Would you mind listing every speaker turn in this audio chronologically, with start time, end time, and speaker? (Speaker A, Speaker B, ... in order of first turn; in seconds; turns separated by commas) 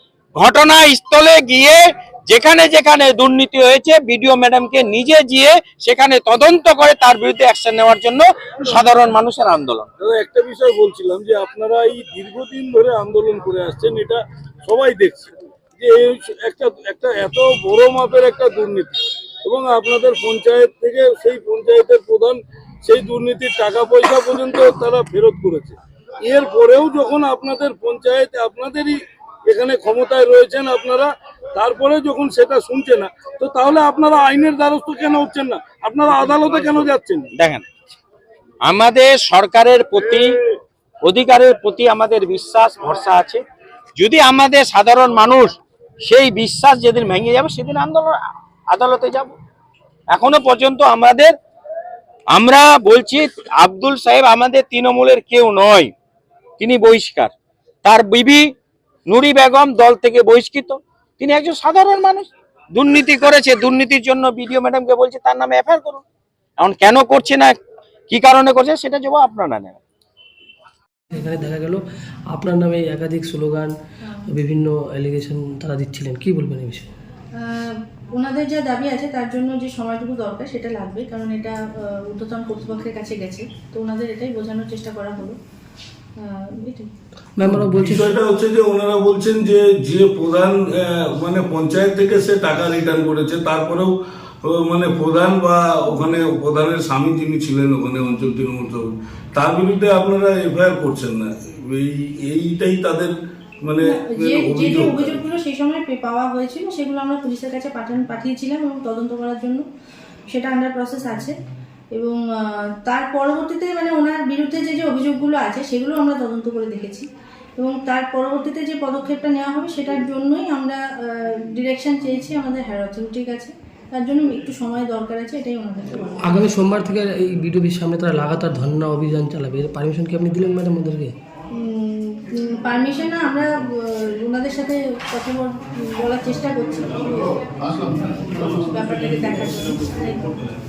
Speaker A: 0.3-9.9, Speaker B: 10.0-37.3, Speaker A: 37.4-37.6, Speaker A: 38.6-40.3, Speaker A: 41.0-43.4, Speaker A: 44.0-48.1, Speaker A: 48.7-49.3, Speaker A: 50.1-51.3, Speaker A: 52.3-55.9, Speaker A: 56.6-57.3, Speaker A: 57.8-58.4, Speaker A: 59.1-66.0, Speaker A: 66.6-67.6, Speaker A: 68.1-69.8, Speaker C: 71.1-76.9, Speaker D: 77.3-85.3, Speaker D: 86.2-86.9, Speaker C: 87.4-88.2, Speaker B: 87.4-105.2, Speaker D: 103.8-109.6, Speaker D: 110.3-111.3, Speaker D: 111.9-117.0, Speaker D: 117.6-126.2, Speaker C: 126.2-131.1, Speaker D: 131.5-140.4